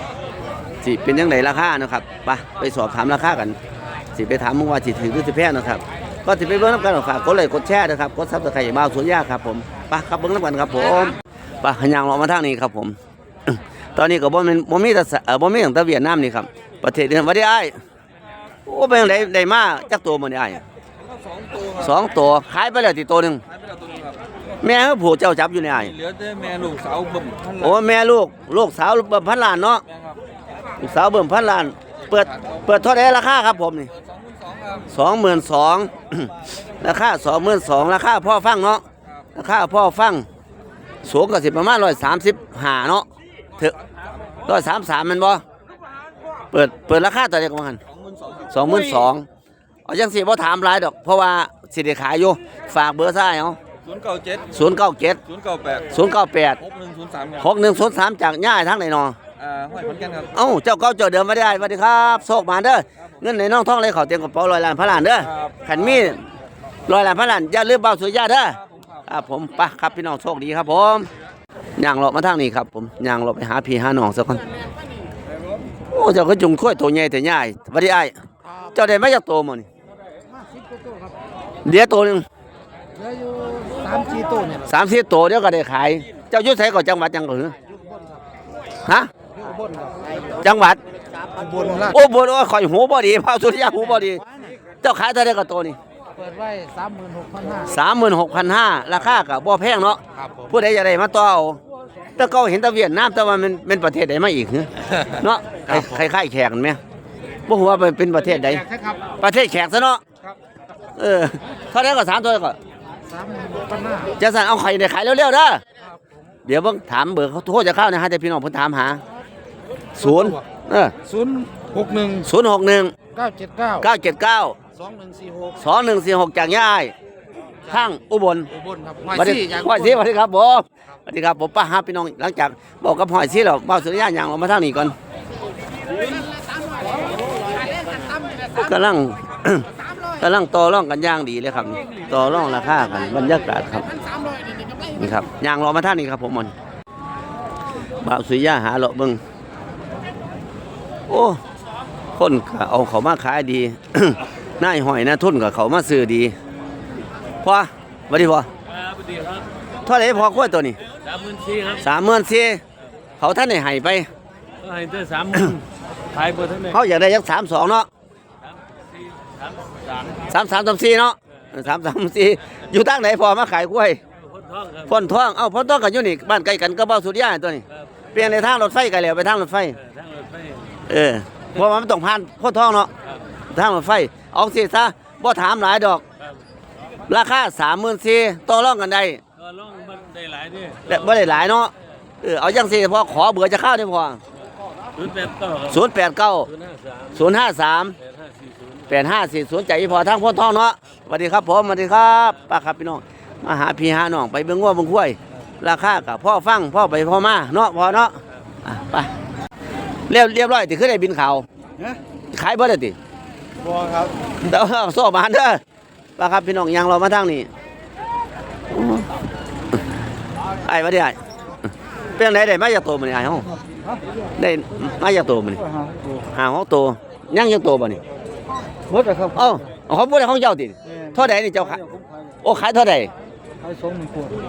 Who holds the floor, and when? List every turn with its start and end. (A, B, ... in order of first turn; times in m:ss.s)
0:00.8-0:03.6 A
0:04.1-0:13.0 A
0:13.5-0:17.8 A
0:18.6-0:20.6 A
0:21.1-0:21.8 B
0:21.7-0:23.4 A
0:23.5-0:24.2 B
0:24.6-0:26.0 A
0:25.9-0:27.6 B
0:27.6-0:29.8 A
0:30.8-0:33.9 A
0:34.2-0:34.8 B
0:34.9-0:38.8 A
0:39.3-0:40.2 A
0:41.0-0:43.0 A
0:44.4-0:45.4 A
0:46.5-0:47.8 A
0:48.0-0:48.5 B
0:48.5-0:49.2 A
0:49.8-0:53.6 A
0:53.8-0:54.5 B
0:54.5-0:55.2 A
0:55.3-0:55.9 B
0:55.9-0:56.6 A
0:56.6-0:57.4 B
0:57.4-0:59.2 A
0:59.4-1:00.3 B
1:00.3-1:06.2 A
1:06.9-1:11.1 A
1:11.8-1:14.4 A
1:15.9-1:19.7 A
1:20.5-1:21.1 C
1:21.6-1:22.2 A
1:23.0-1:24.6 C
1:24.6-1:27.6 A
1:28.8-1:29.1 A
1:29.4-1:30.0 C
1:30.4-1:30.8 A
1:31.3-1:31.9 C
1:31.8-1:34.2 A
1:34.8-1:35.8 A
1:36.2-1:37.6 C
1:37.6-1:41.6 A
1:42.2-1:46.8 A
1:47.5-1:50.0 A
1:48.7-1:49.0 C
1:51.0-1:52.6 A
1:53.1-1:54.1 C
1:54.2-1:55.6 A
1:56.4-1:59.0 A
2:00.0-2:00.9 A
2:01.1-2:02.2 C
2:02.2-2:02.9 A
2:03.2-2:03.7 C
2:03.7-2:04.6 A
2:04.8-2:05.5 C
2:05.6-2:06.9 A
2:07.6-2:08.5 A
2:08.6-2:09.1 C
2:09.1-2:15.0 A
2:18.5-2:23.9 A
2:24.9-2:26.5 A
2:28.0-2:29.2 A
2:31.1-2:31.4 A
2:32.2-2:36.3 A
2:37.4-2:38.5 A
2:38.8-2:39.4 D
2:39.8-2:40.8 A
2:41.1-2:41.7 D
2:41.8-2:42.6 A
2:43.2-2:44.1 A
2:44.6-2:45.6 D
2:46.1-2:46.7 D
2:46.6-2:47.9 A
2:50.2-2:54.0 A
2:54.3-2:54.8 D
2:54.8-2:59.8 A
3:00.0-3:00.6 D
3:00.9-3:02.9 A
3:03.5-3:06.0 A
3:07.1-3:09.2 A
3:09.4-3:10.8 D
3:10.8-3:14.2 A
3:15.0-3:15.6 D
3:15.6-3:16.5 A
3:17.1-3:18.0 A
3:18.4-3:18.7 D
3:18.9-3:29.1 A
3:30.1-3:31.4 A
3:32.3-3:33.0 A
3:34.4-3:35.6 A
3:36.2-3:37.5 A
3:38.7-3:39.0 A
3:40.6-3:41.2 A
3:42.2-3:43.5 A
3:44.4-3:45.7 A
3:46.3-3:48.0 A
3:49.2-3:51.9 A
3:52.4-3:53.1 A
3:53.7-3:54.3 C